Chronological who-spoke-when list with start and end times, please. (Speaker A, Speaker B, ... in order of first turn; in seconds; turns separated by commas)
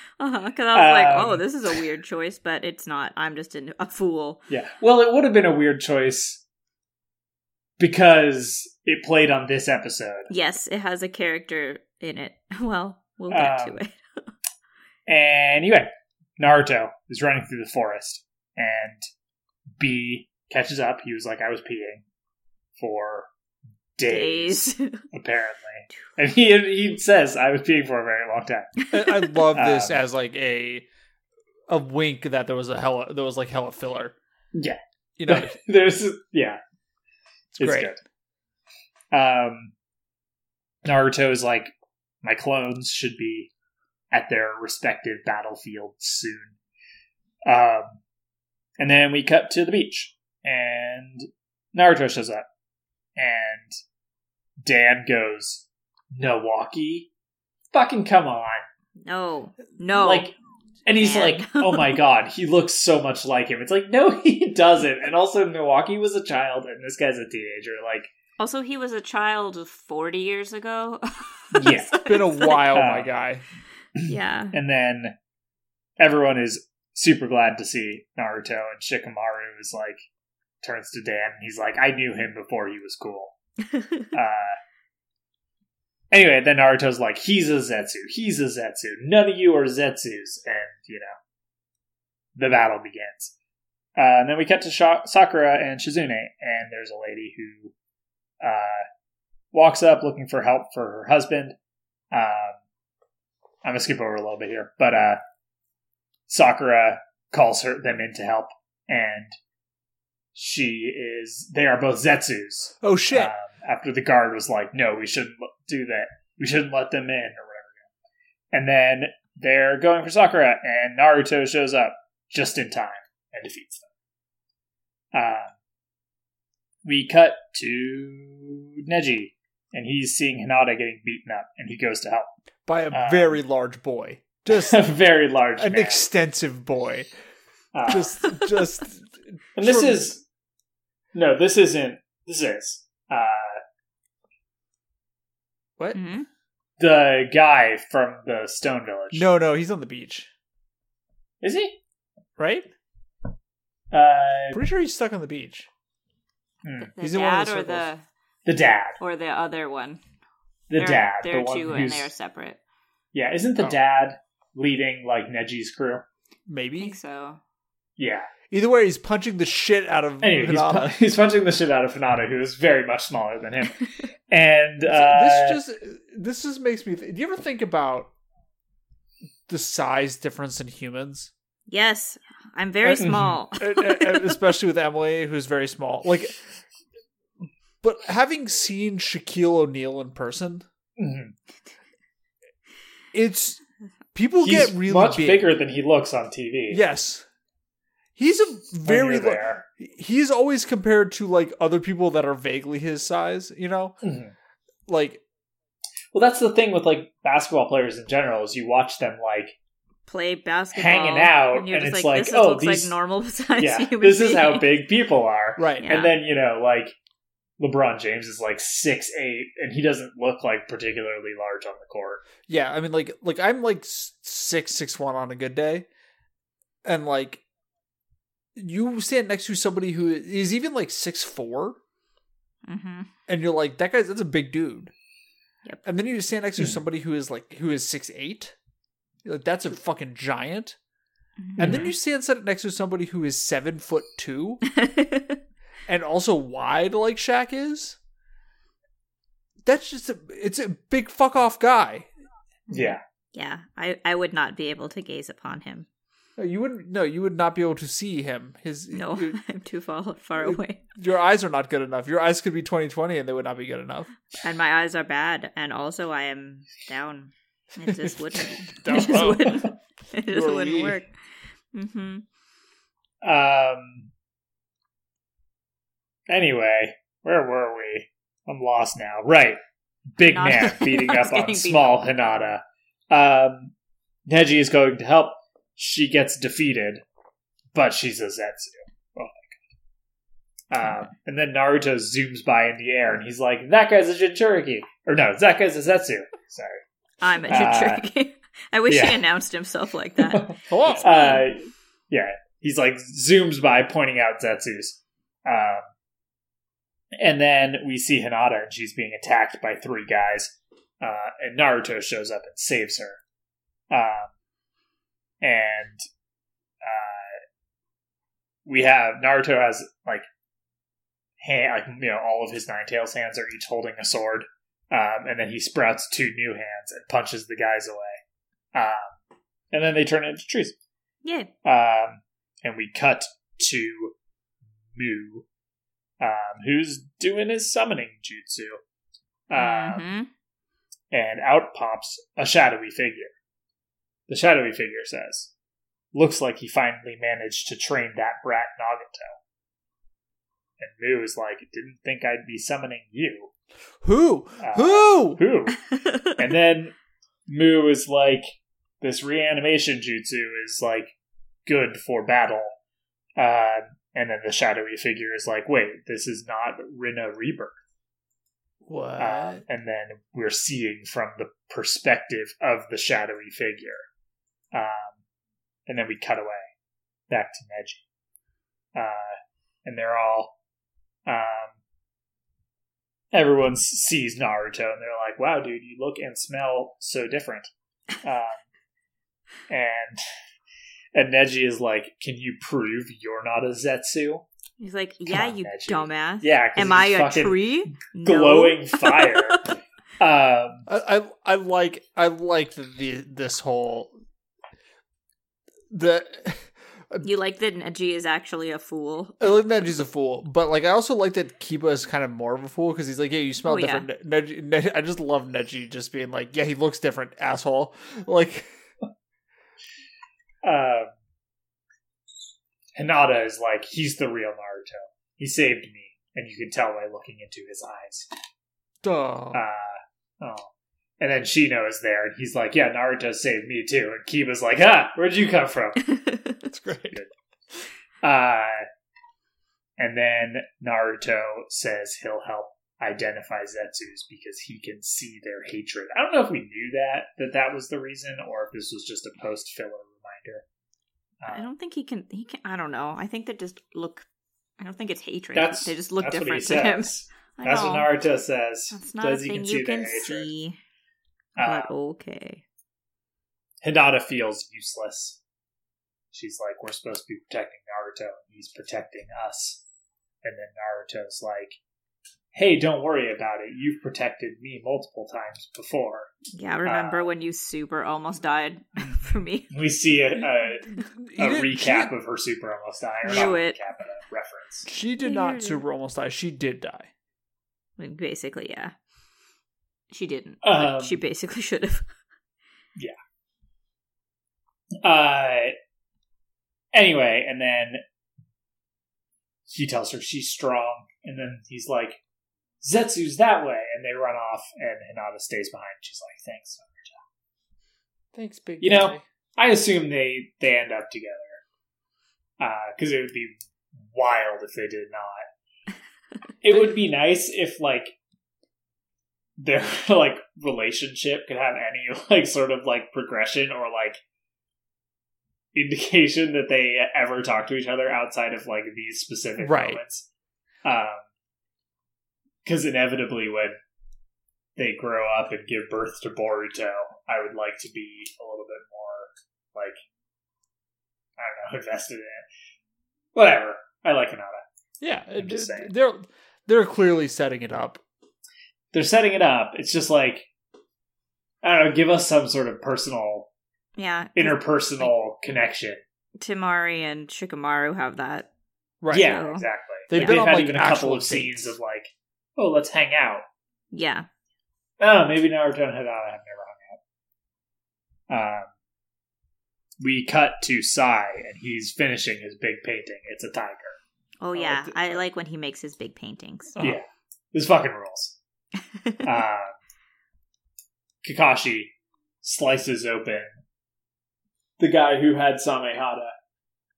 Speaker A: 0.2-4.4, Speaker B: 0.7-1.4, Speaker B: 4.5-6.4, Speaker B: 7.8-10.3, Speaker A: 10.3-14.3, Speaker B: 13.3-13.8, Speaker B: 15.1-19.1, Speaker B: 19.8-22.0, Speaker B: 22.8-23.3, Speaker B: 24.0-28.8, Speaker A: 24.1-25.1, Speaker C: 28.9-30.9, Speaker A: 28.9-29.3, Speaker B: 29.5-30.0, Speaker C: 31.7-34.1, Speaker B: 34.5-36.6, Speaker C: 35.2-35.5, Speaker C: 37.5-37.9, Speaker B: 37.6-38.0, Speaker B: 39.1-39.7, Speaker B: 40.8-41.7, Speaker B: 42.2-43.5, Speaker B: 44.1-46.6, Speaker B: 47.5-48.0, Speaker B: 48.8-52.5, Speaker B: 53.1-53.8, Speaker B: 54.6-57.1, Speaker B: 57.7-58.6, Speaker A: 59.0-60.3, Speaker B: 59.9-60.3, Speaker B: 60.9-68.1, Speaker A: 61.0-62.0, Speaker A: 68.4-72.7, Speaker B: 71.5-72.0, Speaker C: 71.9-73.4, Speaker B: 72.7-73.1, Speaker B: 74.0-75.1, Speaker A: 74.0-74.5, Speaker B: 76.0-80.0, Speaker B: 80.6-83.3, Speaker A: 83.7-84.1, Speaker B: 84.1-84.6, Speaker B: 86.1-91.1, Speaker B: 92.3-93.3, Speaker B: 94.0-97.7, Speaker B: 98.4-98.8, Speaker B: 99.5-101.5, Speaker B: 102.1-102.6, Speaker B: 103.6-105.2, Speaker B: 106.3-109.4, Speaker B: 110.3-117.9, Speaker C: 112.8-113.3, Speaker B: 118.5-123.9, Speaker B: 125.1-125.5, Speaker B: 126.8-132.3, Speaker C: 132.7-134.8, Speaker B: 132.9-133.4, Speaker B: 134.5-136.0, Speaker C: 135.6-137.1, Speaker B: 137.7-138.4, Speaker C: 137.9-140.1, Speaker B: 139.6-140.2, Speaker B: 141.1-143.6, Speaker C: 145.8-146.2, Speaker A: 145.9-146.3, Speaker B: 146.8-149.3, Speaker C: 149.1-150.3, Speaker B: 151.4-151.8, Speaker C: 152.4-152.7, Speaker B: 153.9-154.6, Speaker C: 154.5-155.7, Speaker B: 156.6-156.9, Speaker A: 156.8-158.0, Speaker C: 157.0-157.9, Speaker B: 158.4-159.0, Speaker A: 159.0-160.0, Speaker B: 160.7-162.1, Speaker A: 160.8-162.6, Speaker B: 163.1-166.0, Speaker C: 166.5-166.9, Speaker A: 166.8-167.4, Speaker B: 168.0-168.3, Speaker C: 168.5-170.9, Speaker B: 170.2-175.6, Speaker C: 174.9-178.1, Speaker C: 179.5-181.3, Speaker A: 181.7-184.4, Speaker C: 182.9-186.6, Speaker B: 183.0-183.3, Speaker C: 187.8-190.7, Speaker B: 191.0-191.3, Speaker C: 193.1-193.6, Speaker C: 194.1-195.5, Speaker B: 194.4-196.8, Speaker C: 196.7-197.2, Speaker C: 198.2-204.0, Speaker B: 198.8-199.6, Speaker B: 204.0-204.3, Speaker C: 204.9-205.2, Speaker B: 206.1-209.5, Speaker A: 210.1-214.8, Speaker B: 210.7-212.9, Speaker B: 213.6-216.9, Speaker C: 215.6-215.9, Speaker A: 215.8-216.1, Speaker B: 217.6-222.2, Speaker C: 222.4-225.8, Speaker C: 226.8-227.4, Speaker C: 228.6-231.8, Speaker A: 232.6-233.1, Speaker C: 233.3-234.9, Speaker C: 235.8-238.5, Speaker C: 239.2-240.8, Speaker A: 241.4-241.9, Speaker C: 241.6-244.6, Speaker B: 241.6-241.9, Speaker A: 244.7-245.4, Speaker C: 245.9-248.0, Speaker C: 249.7-252.1, Speaker A: 252.7-255.9, Speaker B: 252.7-253.0, Speaker C: 256.4-259.4, Speaker A: 258.9-260.8, Speaker C: 260.4-264.1, Speaker A: 264.4-271.1, Speaker C: 267.9-269.7, Speaker C: 270.3-271.0, Speaker A: 271.7-272.2, Speaker B: 273.2-274.1, Speaker B: 276.3-279.6, Speaker B: 280.1-283.7, Speaker A: 280.3-282.4, Speaker B: 284.3-287.0, Speaker B: 287.7-289.6, Speaker B: 290.7-296.8, Speaker A: 297.2-301.4, Speaker B: 297.5-298.0, Speaker B: 298.9-299.2, Speaker B: 300.2-305.9, Speaker C: 300.7-301.4, Speaker B: 307.2-313.2, Speaker B: 313.9-314.3, Speaker B: 315.4-316.0, Speaker B: 316.8-317.4, Speaker B: 318.6-320.2, Speaker B: 321.4-328.2, Speaker B: 328.7-329.2, Speaker B: 329.7-330.8, Speaker A: 331.2-331.5, Speaker B: 331.6-334.1, Speaker B: 334.9-335.4, Speaker B: 336.2-338.8, Speaker B: 339.5-340.1, Speaker A: 339.5-340.3, Speaker B: 341.1-343.3, Speaker B: 344.3-345.5, Speaker B: 346.1-349.4, Speaker B: 350.8-353.5, Speaker C: 354.0-355.4, Speaker B: 354.6-356.9, Speaker A: 355.9-356.4, Speaker B: 357.5-361.1, Speaker B: 361.6-362.7, Speaker B: 363.4-367.8, Speaker C: 368.9-369.6, Speaker B: 369.2-374.1, Speaker B: 374.7-375.2, Speaker B: 375.9-376.7, Speaker B: 377.3-378.0, Speaker B: 378.9-380.5, Speaker B: 381.3-381.8, Speaker B: 383.3-388.6, Speaker B: 389.7-390.2, Speaker B: 391.1-394.4, Speaker A: 394.8-399.6, Speaker B: 395.3-400.9, Speaker C: 400.9-404.1, Speaker C: 405.9-407.3, Speaker A: 407.2-409.5, Speaker C: 409.4-418.7, Speaker A: 413.6-414.1, Speaker B: 420.6-421.1, Speaker B: 422.9-428.3, Speaker C: 429.0-429.6, Speaker B: 429.5-430.7, Speaker B: 431.2-436.1, Speaker A: 436.1-436.4, Speaker C: 436.7-437.2, Speaker B: 438.2-438.9, Speaker B: 440.0-450.6, Speaker B: 451.4-451.7, Speaker A: 451.5-454.3, Speaker A: 454.8-458.1, Speaker B: 455.5-460.5, Speaker A: 458.9-460.8, Speaker B: 461.6-461.9, Speaker A: 461.6-462.6, Speaker B: 463.8-465.4, Speaker B: 466.3-469.8, Speaker B: 470.4-471.8, Speaker B: 472.5-477.3, Speaker A: 476.5-479.7, Speaker B: 479.7-484.9, Speaker C: 481.1-482.1, Speaker A: 483.2-483.8, Speaker C: 484.9-487.1, Speaker A: 485.2-485.8, Speaker A: 488.0-488.9, Speaker A: 490.1-492.1, Speaker B: 490.6-491.2, Speaker B: 495.0-495.7, Speaker B: 496.9-498.0, Speaker B: 499.7-502.2, Speaker B: 502.8-507.2, Speaker C: 508.3-509.2, Speaker B: 508.8-511.6, Speaker B: 512.6-515.5, Speaker B: 516.6-518.1, Speaker B: 519.6-524.2, Speaker B: 525.7-530.2, Speaker C: 529.6-530.0, Speaker B: 530.8-531.3, Speaker B: 532.6-533.8, Speaker B: 534.8-540.0, Speaker B: 541.4-542.5, Speaker B: 543.3-544.6, Speaker C: 545.0-548.0, Speaker B: 545.4-545.9, Speaker B: 548.9-550.5, Speaker B: 551.6-553.5, Speaker A: 554.0-555.1, Speaker B: 554.4-556.0, Speaker A: 556.4-558.5, Speaker C: 559.0-559.3, Speaker A: 559.1-560.5, Speaker B: 559.1-563.4, Speaker C: 560.1-561.7, Speaker A: 563.9-564.3, Speaker B: 565.0-567.0, Speaker B: 568.3-568.7, Speaker B: 570.0-574.0, Speaker A: 574.4-576.8, Speaker B: 574.5-575.2, Speaker B: 576.8-578.4, Speaker A: 579.0-579.2, Speaker B: 579.2-579.7, Speaker B: 581.2-583.5, Speaker B: 584.8-586.3